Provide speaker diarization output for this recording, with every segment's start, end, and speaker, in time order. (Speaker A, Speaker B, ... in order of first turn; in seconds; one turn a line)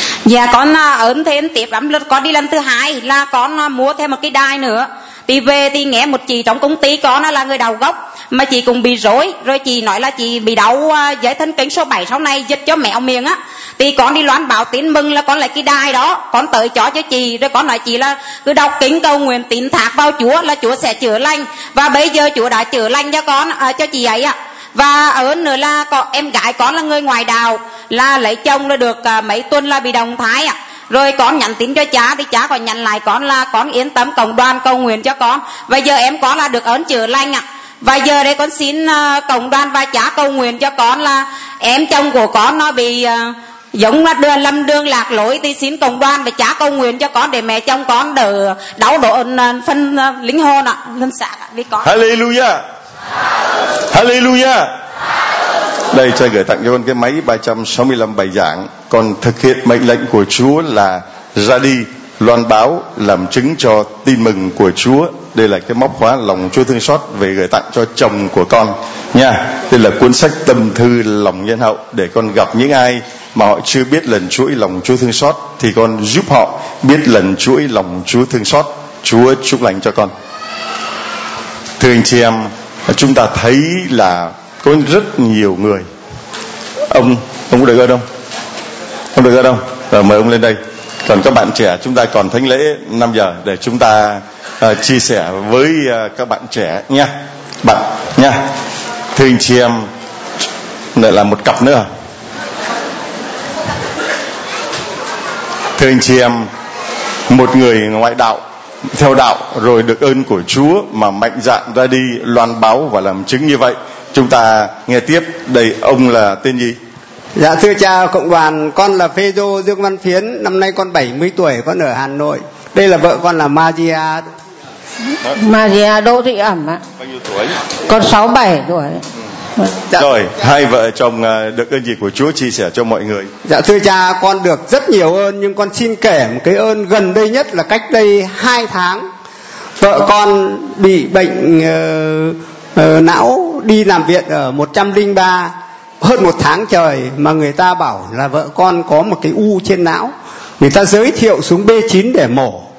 Speaker A: 0.2-51.9
Speaker B: 51.8-52.6
Speaker B: 53.9-54.7
Speaker B: 55.9-80.1
Speaker B: 81.8-85.8
Speaker B: 86.9-88.0
Speaker B: 89.1-98.5
Speaker B: 99.1-99.9
Speaker B: 100.9-101.9
Speaker B: 105.8-106.5
Speaker B: 107.3-108.4
Speaker B: 108.9-116.8
Speaker C: 117.3-124.3
Speaker D: 125.3-126.8
Speaker B: 127.2-127.5
Speaker D: 127.8-129.0
Speaker B: 129.9-133.3
Speaker C: 133.4-139.1
Speaker C: 139.8-152.7